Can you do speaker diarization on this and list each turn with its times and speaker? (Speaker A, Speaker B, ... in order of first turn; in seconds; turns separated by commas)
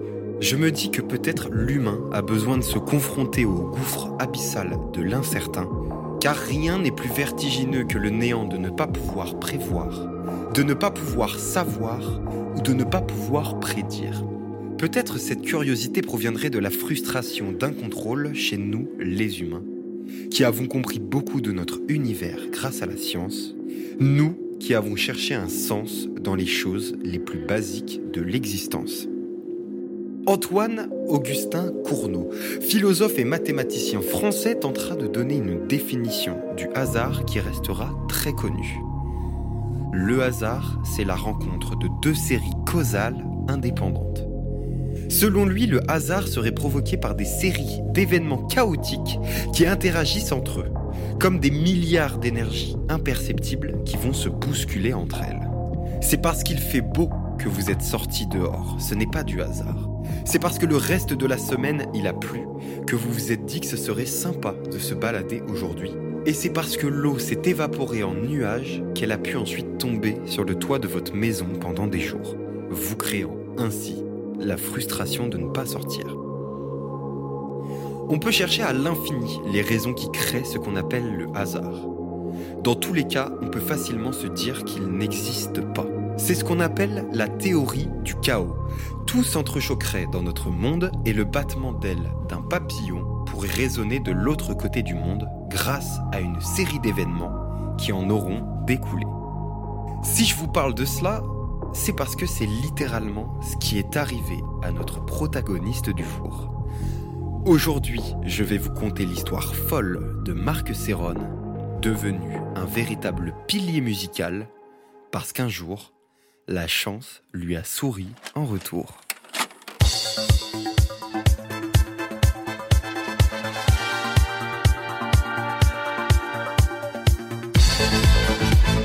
Speaker A: 0.4-14.3, Speaker A: 14.8-19.7, Speaker A: 20.3-29.1, Speaker A: 30.3-38.9, Speaker A: 39.9-44.3, Speaker A: 45.1-55.5, Speaker A: 56.0-76.2, Speaker A: 78.1-81.9, Speaker A: 82.6-99.1, Speaker A: 100.0-106.5, Speaker A: 107.5-114.5, Speaker A: 115.1-115.9, Speaker A: 116.5-119.0